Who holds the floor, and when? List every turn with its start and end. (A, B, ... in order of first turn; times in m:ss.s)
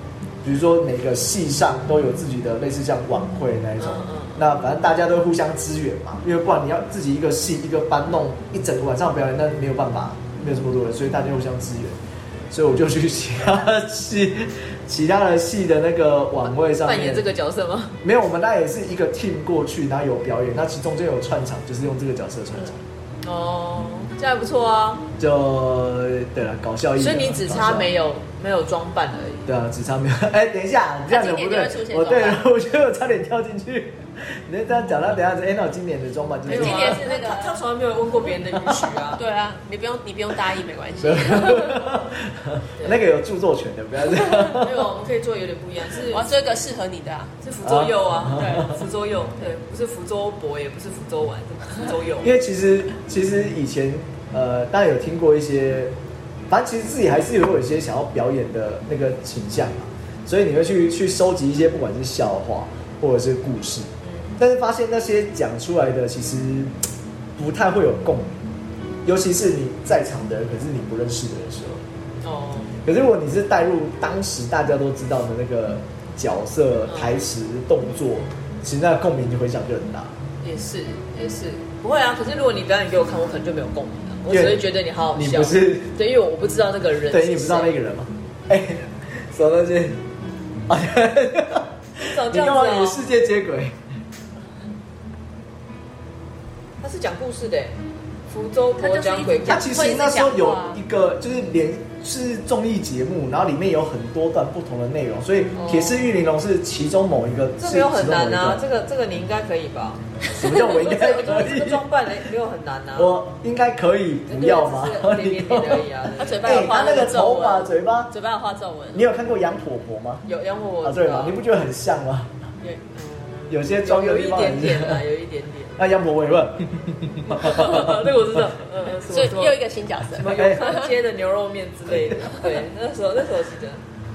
0:00.4-0:12.0 A
0:03.8-0:04.4 B
0:12.5-0:17.3 A
0:16.4-0:18.0 B
0:18.0-0:22.8 A
0:23.2-0:25.1 B
0:25.2-0:27.9 A
0:27.0-0:29.5 B
0:29.4-0:37.0 A
0:31.1-0:32.4 C
0:36.5-0:37.6 C
0:36.5-0:39.2 B
0:39.1-0:41.9 C
0:41.0-0:44.9 A
0:44.4-0:46.3 B
0:46.1-0:47.4 C
0:47.4-0:52.3 B
0:47.6-0:48.7 A
0:48.3-0:48.7 C
0:52.2-0:55.9 A
0:56.5-1:06.7 A
1:04.0-1:04.4 B
1:07.4-1:08.4 A
1:09.0-1:11.8 A
1:12.2-1:12.8 B
1:12.8-1:20.1 A
1:16.9-1:17.1 B
1:20.4-1:27.7 B
1:24.3-1:26.0 A
1:27.1-1:30.0 A
1:30.7-1:33.8 A
1:32.0-1:33.0 B
1:36.8-1:37.8 B
1:38.3-1:39.8 B
1:38.8-1:40.8 C
1:39.4-1:48.6 A
1:45.6-1:46.1 B
1:47.6-1:53.2 B
1:50.3-1:51.9 A
1:53.0-1:55.9 A
1:54.3-1:57.0 B
1:56.2-1:59.1 C
1:56.4-1:58.1 A
1:58.9-2:00.2 A
2:00.2-2:01.4 B
2:00.8-2:02.3 A
2:02.9-2:05.8 B
2:03.5-2:05.0 A
2:05.8-2:08.0 A
2:07.3-2:09.6 B
2:08.8-2:10.9 C
2:10.1-2:13.8 B
2:10.3-2:10.7 A
2:11.9-2:12.2 A